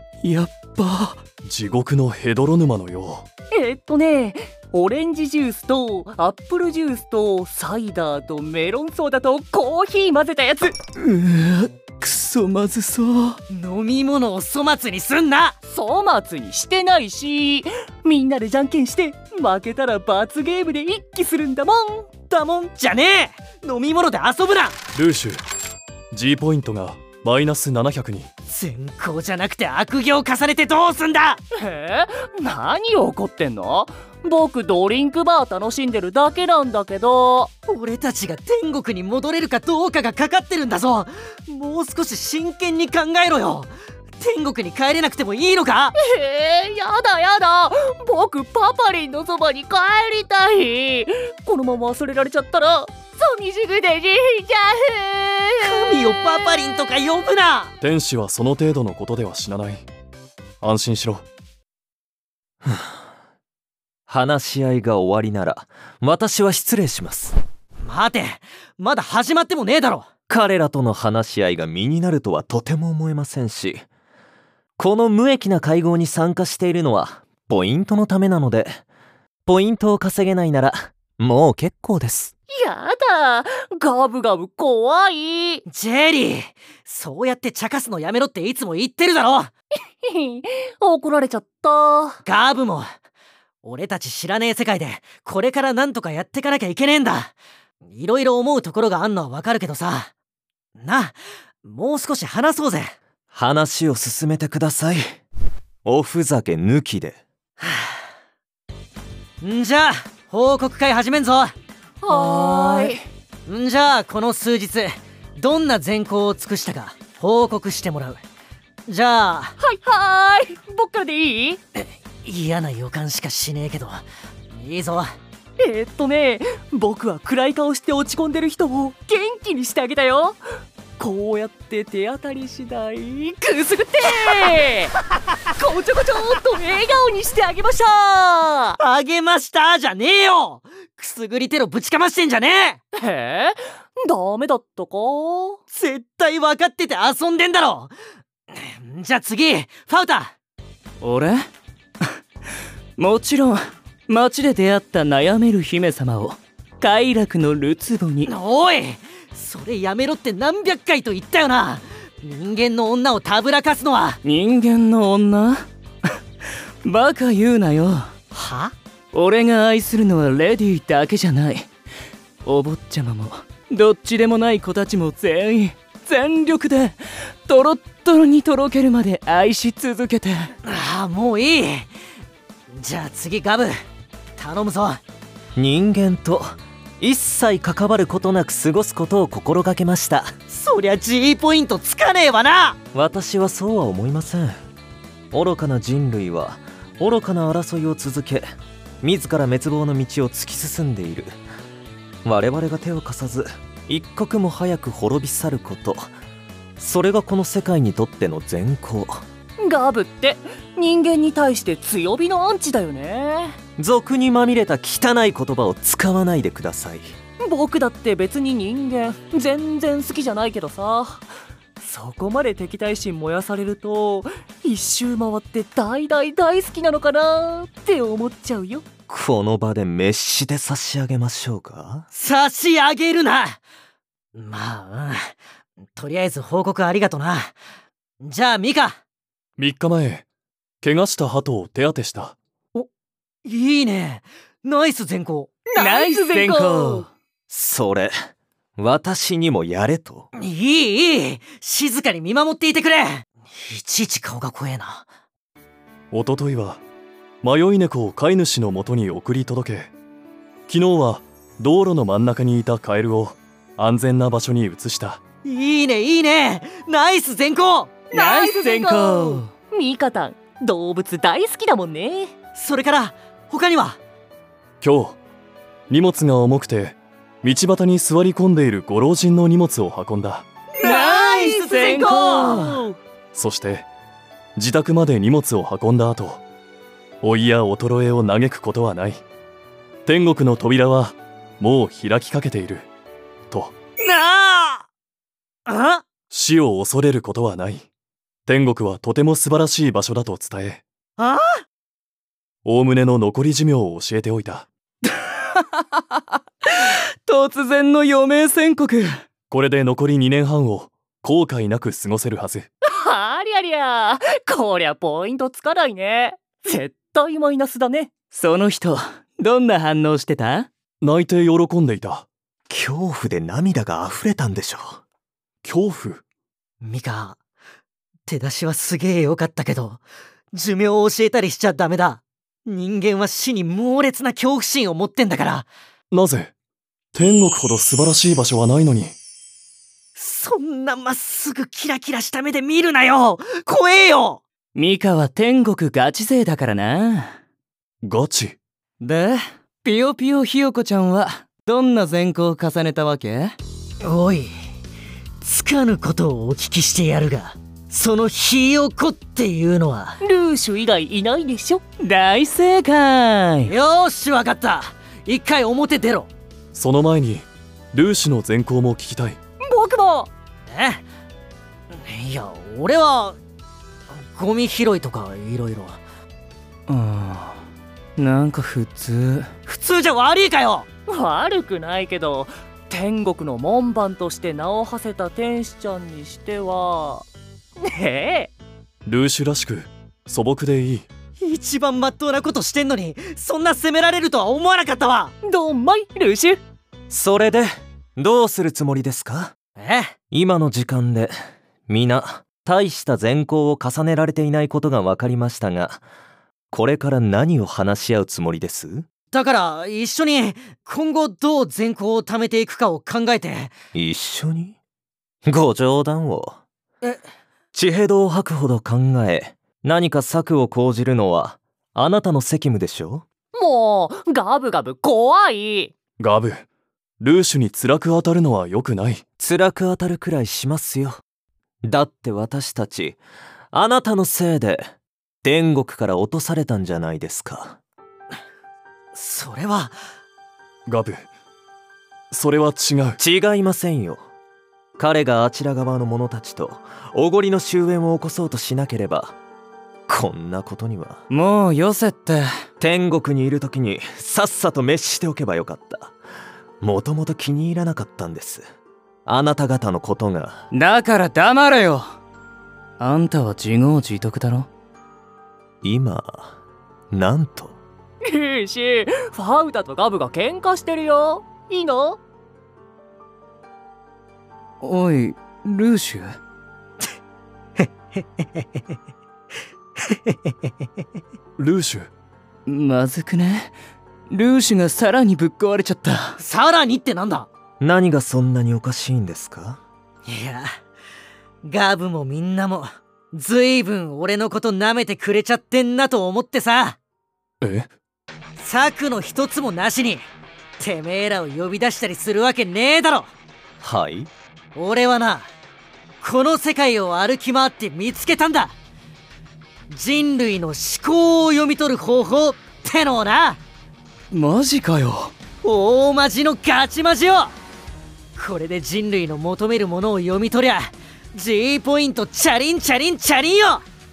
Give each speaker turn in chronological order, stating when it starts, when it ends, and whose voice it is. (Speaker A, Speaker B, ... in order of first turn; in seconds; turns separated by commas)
Speaker A: 0.2-1.2, Speaker B: 1.4-3.3, Speaker C: 3.5-10.7, Speaker A: 11.0-13.4, Speaker D: 13.5-15.6, Speaker C: 15.7-22.1, Speaker D: 22.3-24.8, Speaker B: 24.9-25.4, Speaker B: 26.1-28.3, Speaker D: 28.5-31.4, Speaker C: 31.6-37.5, Speaker D: 37.7-46.0, Speaker C: 46.0-56.1, Speaker D: 55.6-57.7, Speaker B: 57.8-59.9, Speaker B: 60.6-61.2, Speaker E: 62.6-62.9, Speaker E: 64.1-67.4, Speaker D: 67.8-70.1, Speaker E: 70.3-73.9, Speaker E: 74.8-78.8, Speaker E: 79.5-82.3, Speaker C: 82.5-85.6, Speaker D: 85.7-89.5, Speaker C: 90.0-92.2, Speaker D: 92.2-92.9, Speaker D: 93.6-97.3, Speaker D: 97.9-100.1, Speaker D: 100.8-103.0, Speaker E: 103.3-105.2, Speaker E: 105.8-107.2, Speaker D: 107.6-107.9, Speaker D: 109.4-111.5, Speaker C: 112.0-113.0, Speaker D: 112.1-112.9, Speaker D: 113.5-118.2, Speaker D: 118.9-119.6, Speaker C: 119.6-121.6, Speaker D: 121.8-125.1, Speaker C: 125.6-130.4, Speaker C: 131.0-134.9, Speaker C: 135.5-138.8, Speaker D: 138.8-142.8, Speaker C: 142.9-145.6, Speaker D: 145.7-147.9, Speaker D: 148.5-150.3, Speaker A: 151.0-151.5, Speaker A: 153.0-158.3, Speaker D: 158.3-164.2, Speaker A: 164.2-165.7, Speaker A: 166.8-168.1, Speaker D: 168.3-168.7, Speaker A: 169.1-171.7, Speaker A: 172.4-180.5, Speaker D: 180.7-181.9, Speaker D: 182.7-183.7, Speaker D: 184.4-185.0, Speaker E: 185.6-190.3, Speaker D: 190.5-192.8, Speaker E: 192.9-194.6, Speaker E: 195.3-198.5, Speaker E: 199.0-201.3, Speaker E: 202.2-206.1, Speaker E: 206.8-209.2, Speaker C: 209.6-213.6, Speaker E: 213.8-217.2, Speaker C: 217.4-221.3, Speaker C: 221.8-228.9, Speaker E: 229.1-232.1, Speaker D: 232.1-233.6, Speaker D: 234.3-235.3, Speaker D: 236.0-237.6, Speaker D: 238.2-239.0, Speaker B: 239.6-240.2, Speaker B: 240.8-242.4, Speaker D: 243.4-245.5, Speaker C: 245.7-247.1, Speaker A: 245.8-247.1, Speaker E: 247.5-248.1, Speaker E: 248.8-250.3, Speaker D: 250.3-255.1, Speaker B: 256.1-256.8, Speaker B: 257.4-259.9, Speaker B: 260.7-265.2, Speaker D: 265.4-267.9, Speaker A: 268.1-269.5, Speaker C: 268.1-272.4, Speaker D: 272.6-274.0, Speaker B: 274.8-275.2, Speaker B: 275.9-280.5, Speaker D: 280.8-282.7, Speaker A: 280.8-282.9, Speaker B: 283.3-283.9, Speaker B: 284.6-286.4, Speaker B: 287.2-289.2, Speaker B: 290.1-292.9, Speaker D: 294.0-294.9, Speaker D: 295.7-296.0, Speaker B: 296.3-297.9, Speaker B: 298.5-300.8, Speaker D: 301.2-301.6, Speaker B: 302.6-304.7, Speaker A: 305.1-309.2, Speaker B: 309.5-312.7, Speaker C: 312.8-318.1, Speaker A: 318.3-320.7, Speaker B: 321.0-322.3, Speaker E: 322.7-325.0, Speaker B: 325.6-326.2, Speaker D: 326.8-327.4, Speaker D: 328.3-330.0, Speaker D: 330.5-335.7, Speaker B: 336.1-336.5, Speaker B: 337.1-339.1, Speaker D: 340.2-344.4, Speaker A: 344.8-347.4, Speaker B: 348.0-348.6, Speaker A: 349.0-353.6, Speaker D: 354.0-354.5, Speaker D: 355.4-360.2, Speaker C: 360.2-361.8, Speaker A: 362.0-363.7, Speaker D: 363.6-366.3, Speaker B: 366.7-369.4, Speaker C: 369.7-370.3, Speaker D: 370.7-371.0, Speaker D: 371.9-373.4, Speaker D: 374.1-376.0, Speaker A: 376.9-377.6, Speaker A: 378.2-379.5, Speaker D: 379.7-380.9, Speaker C: 381.1-387.3, Speaker C: 387.8-388.5, Speaker B: 389.1-391.1, Speaker D: 391.4-395.3, Speaker C: 395.4-396.6, Speaker E: 397.1-399.6, Speaker D: 399.8-400.1, Speaker E: 400.3-401.3, Speaker E: 401.9-406.0, Speaker E: 406.7-409.1, Speaker D: 409.3-413.8, Speaker E: 413.9-414.8, Speaker E: 415.4-416.6, Speaker E: 417.7-423.3, Speaker C: 423.5-425.9, Speaker B: 426.2-426.6, Speaker B: 427.2-429.2, Speaker E: 429.4-431.2, Speaker E: 431.8-433.2, Speaker E: 433.7-434.9, Speaker E: 435.4-437.8, Speaker D: 439.1-439.9, Speaker B: 440.9-441.3, Speaker B: 442.3-443.2, Speaker E: 443.2-444.2, Speaker E: 445.0-449.4, Speaker E: 450.1-451.2, Speaker A: 451.3-452.5, Speaker E: 452.8-456.1, Speaker E: 456.8-458.7, Speaker E: 459.3-460.7, Speaker A: 460.7-462.1, Speaker A: 463.0-464.7, Speaker E: 465.8-466.6, Speaker E: 467.1-467.8, Speaker C: 468.3-472.2, Speaker A: 474.8-476.4, Speaker D: 477.8-478.6, Speaker D: 480.1-480.5, Speaker B: 481.6-482.1, Speaker A: 482.7-483.8, Speaker A: 484.3-486.4, Speaker D: 486.4-487.5, Speaker E: 487.8-489.8, Speaker D: 490.3-490.8, Speaker D: 491.6-497.0, Speaker B: 497.6-497.9, Speaker D: 498.6-500.2, Speaker D: 500.8-503.3, Speaker E: 503.8-504.3, Speaker D: 504.8-505.5, Speaker D: 506.2-508.7, Speaker D: 509.9-513.6, Speaker A: 514.3-515.3, Speaker D: 515.6-517.5, Speaker D: 518.4-523.8